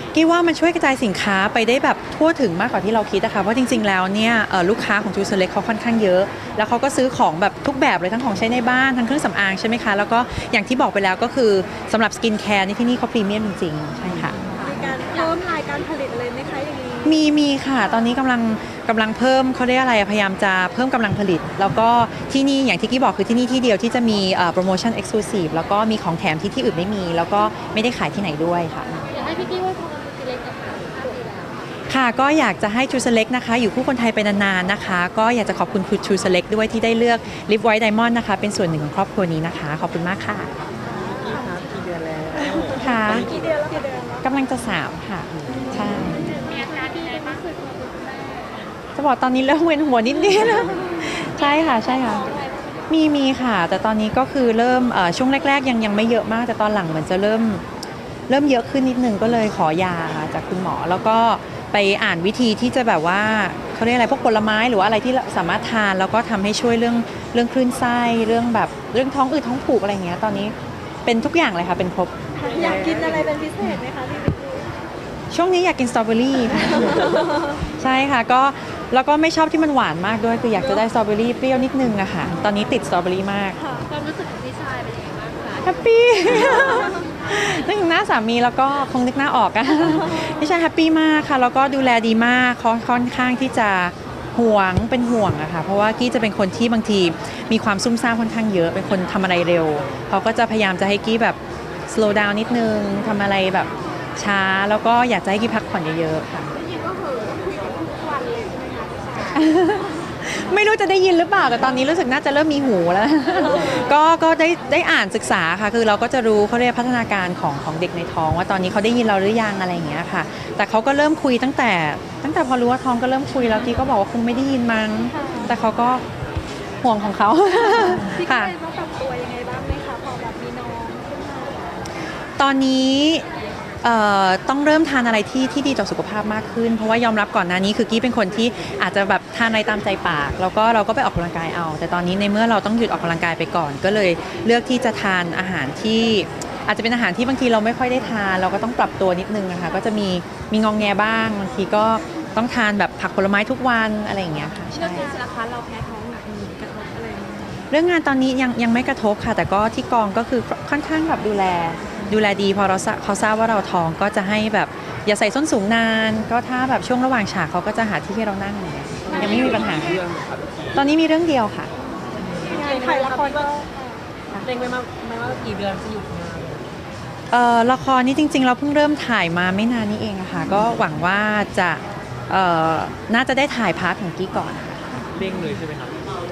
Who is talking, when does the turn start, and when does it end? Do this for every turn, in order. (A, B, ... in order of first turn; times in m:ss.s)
0:00.1-0:14.4 A
0:14.4-0:14.8 B
0:14.6-0:17.2 C
0:17.0-0:29.0 A
0:29.0-0:31.6 D
0:31.9-0:40.5 A
0:40.8-0:41.4 C
0:41.2-0:43.6 E
0:42.7-0:43.3 A
0:43.2-0:44.3 C
0:44.2-0:46.3 A
0:45.5-0:46.3 C
0:46.3-0:48.6 D
0:46.4-0:46.7 B
0:49.0-0:52.4 A
0:51.4-0:52.8 D
0:52.9-0:57.6 A
0:58.3-1:10.5 A
1:11.1-1:12.1 A
1:12.4-1:14.7 C
1:12.6-1:13.2 E
1:15.3-1:23.6 A
1:16.9-1:17.5 C
1:23.6-1:23.9 C
1:23.9-1:25.8 D
1:25.6-1:46.5 A
1:26.3-1:26.9 C
1:46.6-1:49.7 D
1:49.3-2:06.0 A
2:05.1-2:05.6 C
2:06.8-2:08.5 A
2:07.5-2:11.9 C
2:12.4-2:13.2 A
2:13.8-2:35.1 A
2:34.7-2:37.6 D
2:34.9-2:35.6 B
2:36.3-2:36.9 B
2:37.7-2:50.0 A
2:49.1-2:50.6 E
2:50.8-2:51.7 A
2:52.2-2:53.5 B
2:52.4-2:54.0 C
2:54.4-2:56.6 B
2:57.3-3:04.8 A
3:05.2-3:06.0 E